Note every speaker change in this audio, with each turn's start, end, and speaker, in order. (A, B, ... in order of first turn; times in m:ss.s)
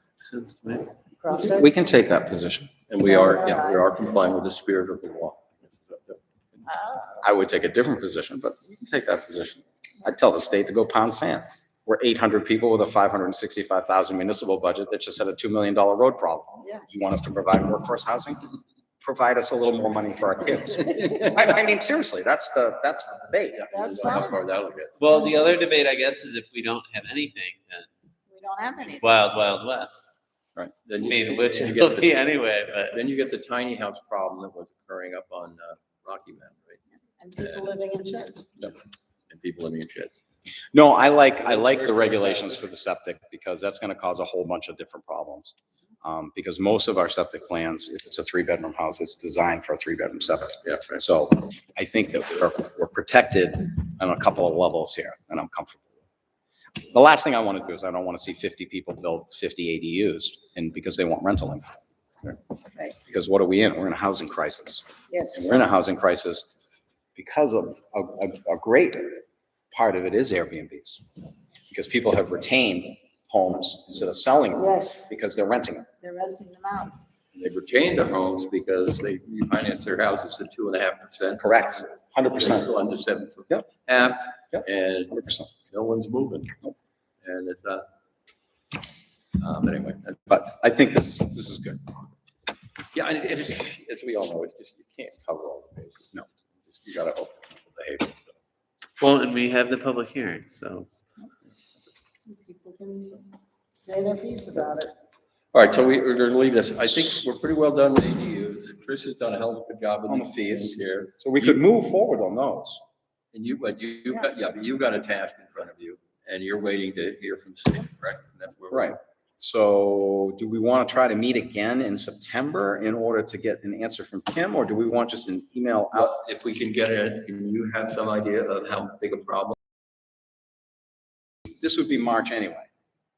0:00.2-0:00.9 A
0:01.2-0:01.7 B
0:01.4-0:02.8 C
0:02.9-0:06.6 D
0:03.0-0:03.9 B
0:06.7-0:07.1 B
0:07.2-0:18.4 C
0:16.6-0:17.0 B
0:19.0-0:23.7 C
0:23.5-0:25.0 D
0:23.7-0:24.4 B
0:25.0-0:27.9 A
0:28.3-0:29.1 B
0:28.8-0:30.0 A
0:30.8-0:32.2 D
0:31.0-0:33.0 A
0:32.9-0:36.8 D
0:37.2-0:38.7 B
0:37.4-0:37.7 D
0:39.3-0:40.2 D
0:40.7-0:55.9 C
0:41.4-0:42.5 D
0:50.6-0:50.9 D
0:56.9-1:01.7 C
1:02.7-1:03.0 B
1:03.0-1:06.5 C
1:05.1-1:05.5 B
1:07.2-1:11.0 C
1:11.7-1:15.9 C
1:14.5-1:15.1 B
1:16.0-1:17.0 B
1:17.3-1:21.5 D
1:21.4-1:22.7 C
1:22.4-1:26.6 D
1:24.5-1:25.5 C
1:27.2-1:27.8 D
1:29.4-1:30.2 D
1:30.3-1:31.8 C
1:32.9-1:38.4 D
1:39.0-1:40.9 A
1:42.2-1:45.0 B
1:45.5-1:51.6 D
1:50.1-1:52.8 C
1:53.3-1:58.9 D
1:58.7-2:06.2 C
2:06.0-2:09.6 D
2:11.4-2:12.7 C